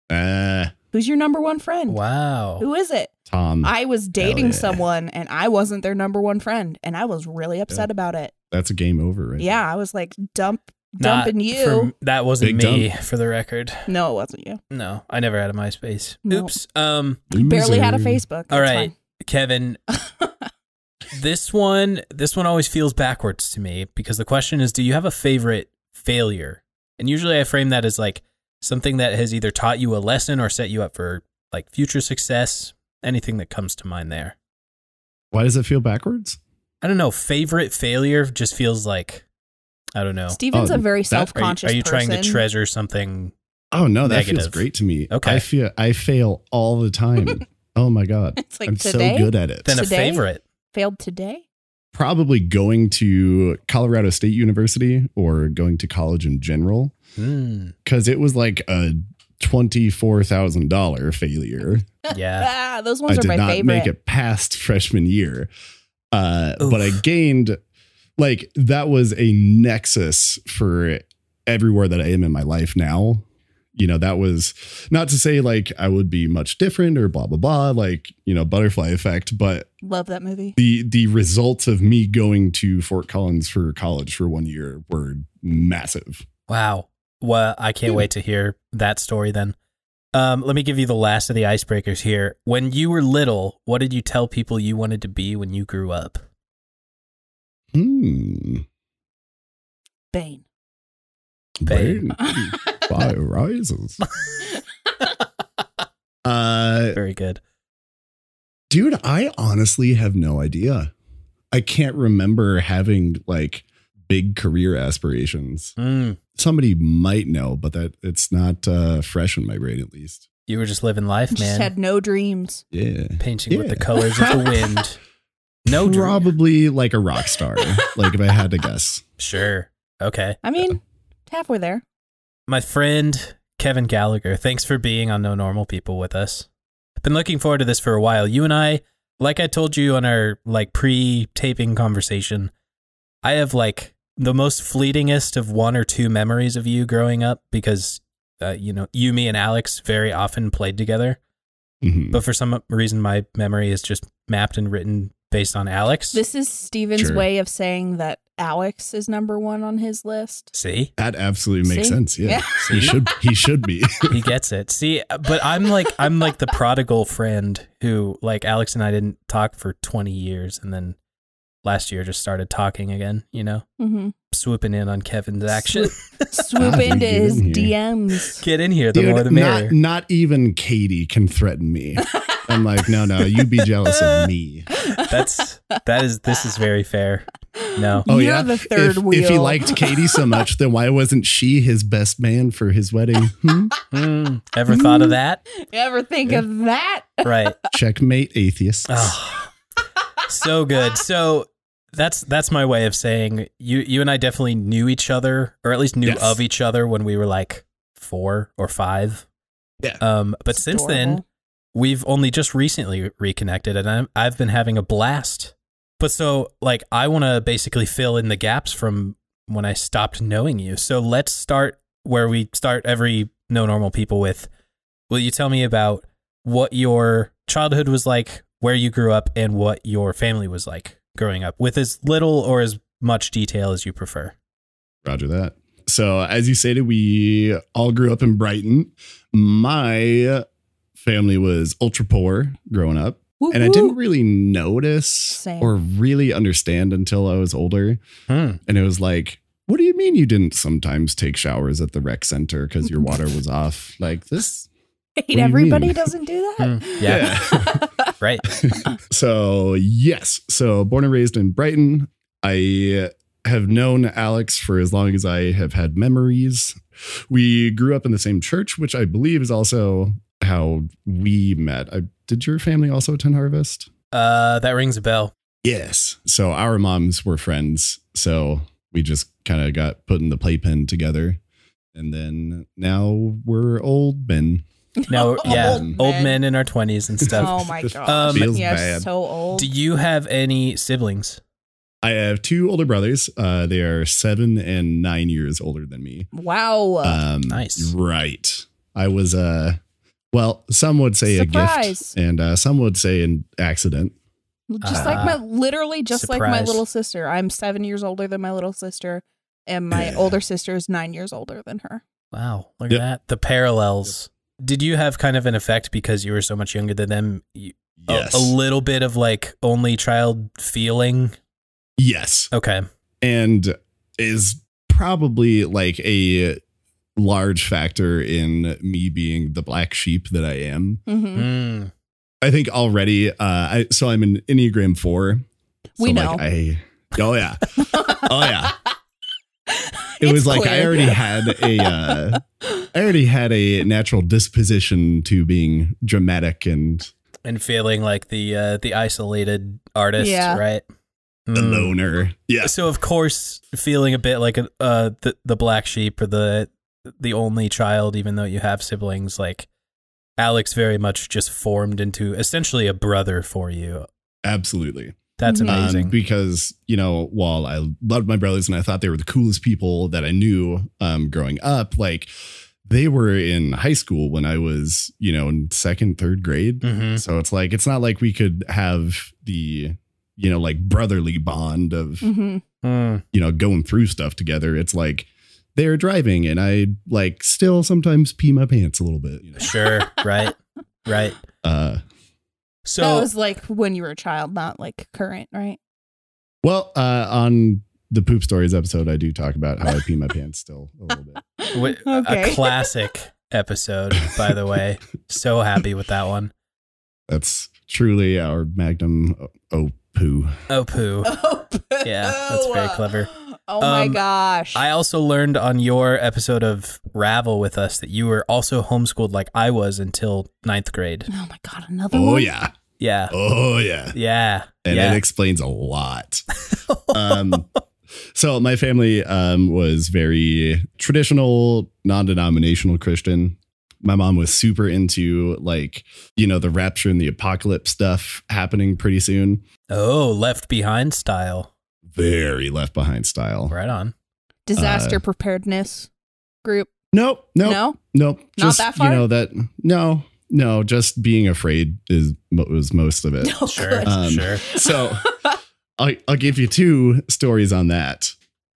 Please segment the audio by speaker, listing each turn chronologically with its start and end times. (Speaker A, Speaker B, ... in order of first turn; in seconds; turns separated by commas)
Speaker A: 0.1-0.7, Speaker B: 0.9-2.0, Speaker C: 1.9-2.6, Speaker B: 2.6-3.1, Speaker A: 3.3-4.8, Speaker B: 3.6-8.3, Speaker A: 8.5-9.6, Speaker B: 9.4-11.9, Speaker C: 11.0-13.9, Speaker A: 12.4-12.9, Speaker B: 13.9-14.6, Speaker C: 14.7-17.2, Speaker B: 16.2-16.5, Speaker A: 17.3-18.2, Speaker B: 17.3-18.9, Speaker C: 18.5-19.8, Speaker C: 21.1-34.3, Speaker A: 35.3-36.4, Speaker C: 36.8-39.2, Speaker C: 39.9-40.4, Speaker B: 40.3-42.4, Speaker A: 40.5-41.3, Speaker C: 41.3-43.3, Speaker A: 43.7-49.7, Speaker C: 44.0-45.4, Speaker B: 48.4-51.4, Speaker C: 49.6-50.4, Speaker A: 51.9-56.9, Speaker C: 57.2-57.7, Speaker A: 57.9-61.9, Speaker C: 62.1-62.5, Speaker B: 62.4-63.9, Speaker A: 63.1-65.5, Speaker A: 66.1-67.6, Speaker C: 66.6-67.0, Speaker A: 68.2-73.2, Speaker A: 73.7-79.7, Speaker B: 79.8-80.6, Speaker A: 80.6-86.2, Speaker C: 86.5-89.5, Speaker C: 90.1-96.2, Speaker A: 97.7-98.6, Speaker B: 100.1-100.4, Speaker A: 101.6-104.0, Speaker C: 101.7-102.0, Speaker A: 106.2-107.0, Speaker C: 106.9-107.4, Speaker A: 108.7-110.9, Speaker A: 111.5-115.7, Speaker C: 115.8-116.2, Speaker A: 116.3-120.3, Speaker C: 120.5-121.7, Speaker B: 121.3-122.6, Speaker A: 122.7-124.9, Speaker C: 123.2-125.0, Speaker C: 125.7-126.3, Speaker A: 125.7-129.0, Speaker C: 129.2-130.4, Speaker B: 130.4-131.8, Speaker C: 132.5-136.5, Speaker C: 137.0-142.5, Speaker C: 143.2-151.2, Speaker A: 151.8-152.2, Speaker C: 152.1-156.2, Speaker B: 156.1-160.5, Speaker A: 156.9-157.2, Speaker C: 160.5-160.9, Speaker A: 161.0-164.1, Speaker B: 161.7-162.9, Speaker C: 162.6-163.0, Speaker C: 164.1-170.9, Speaker C: 171.6-173.7, Speaker B: 173.8-174.1, Speaker C: 174.3-176.3, Speaker B: 175.7-178.4, Speaker A: 176.6-177.7, Speaker C: 178.4-179.7, Speaker A: 178.9-184.7, Speaker C: 185.0-188.1, Speaker B: 187.5-190.2, Speaker A: 188.1-193.7, Speaker C: 193.9-195.4, Speaker B: 194.7-197.5, Speaker C: 197.2-197.6, Speaker A: 197.7-199.2, Speaker C: 198.9-199.5, Speaker C: 200.3-209.2, Speaker A: 206.0-206.4, Speaker C: 210.0-211.2, Speaker B: 210.5-211.2, Speaker C: 211.7-224.5, Speaker C: 225.1-234.3, Speaker A: 235.0-240.4, Speaker A: 241.0-248.0, Speaker B: 243.4-244.0, Speaker B: 245.3-245.7, Speaker C: 248.3-248.6, Speaker A: 248.7-254.7, Speaker B: 255.2-258.1, Speaker A: 255.3-256.1, Speaker C: 256.6-257.3, Speaker A: 257.0-257.9, Speaker C: 258.2-258.4, Speaker A: 258.6-273.9, Speaker C: 274.1-275.3, Speaker A: 275.6-281.4, Speaker A: 281.9-284.6, Speaker B: 285.0-286.4, Speaker C: 285.1-288.5, Speaker A: 285.4-285.9, Speaker A: 287.2-289.1, Speaker B: 287.3-289.7, Speaker C: 289.6-291.4, Speaker A: 292.0-296.3, Speaker B: 296.3-297.2, Speaker A: 297.0-299.8, Speaker C: 297.5-297.9, Speaker A: 300.3-304.1, Speaker B: 301.2-302.1, Speaker B: 304.7-312.0, Speaker C: 304.8-305.4, Speaker A: 304.9-305.3, Speaker C: 306.1-306.8, Speaker A: 309.9-310.4, Speaker C: 312.3-321.3, Speaker A: 318.0-318.5, Speaker A: 322.0-322.5, Speaker C: 322.5-322.8, Speaker A: 323.2-326.6, Speaker A: 327.1-331.0, Speaker B: 331.1-331.5, Speaker C: 331.3-331.9, Speaker A: 332.4-335.4, Speaker B: 336.0-336.4, Speaker A: 336.0-338.7, Speaker B: 337.8-338.3, Speaker B: 339.7-342.4, Speaker A: 340.2-347.1, Speaker C: 347.4-350.8, Speaker B: 350.2-350.6, Speaker C: 351.5-351.9, Speaker A: 351.5-352.7, Speaker C: 352.6-359.7, Speaker C: 360.4-364.1, Speaker A: 364.4-372.3, Speaker C: 365.4-366.1, Speaker B: 365.4-365.8, Speaker A: 372.8-382.3, Speaker C: 376.8-377.2, Speaker B: 382.2-382.6, Speaker C: 382.8-383.2, Speaker A: 383.3-389.7, Speaker C: 389.6-391.4, Speaker A: 391.6-392.0, Speaker C: 392.9-393.3, Speaker B: 393.0-395.8, Speaker A: 396.6-401.4, Speaker B: 401.6-402.9, Speaker C: 401.7-406.5, Speaker A: 407.3-410.6, Speaker C: 410.7-411.4, Speaker B: 411.2-414.8, Speaker C: 412.0-414.2, Speaker C: 414.7-421.3, Speaker B: 421.3-422.5, Speaker A: 422.1-422.7, Speaker C: 423.0-423.4, Speaker A: 423.3-424.2, Speaker C: 424.1-425.2, Speaker A: 424.8-426.5, Speaker C: 426.6-427.6, Speaker A: 427.1-427.7, Speaker A: 428.3-439.6, Speaker C: 439.9-441.7, Speaker A: 442.1-443.7, Speaker C: 443.7-444.1, Speaker B: 444.7-446.1, Speaker A: 444.8-445.2, Speaker B: 446.6-446.9, Speaker A: 447.1-455.3, Speaker B: 447.6-448.0, Speaker B: 448.6-449.2, Speaker B: 453.4-455.6, Speaker C: 453.7-454.6, Speaker A: 456.0-458.3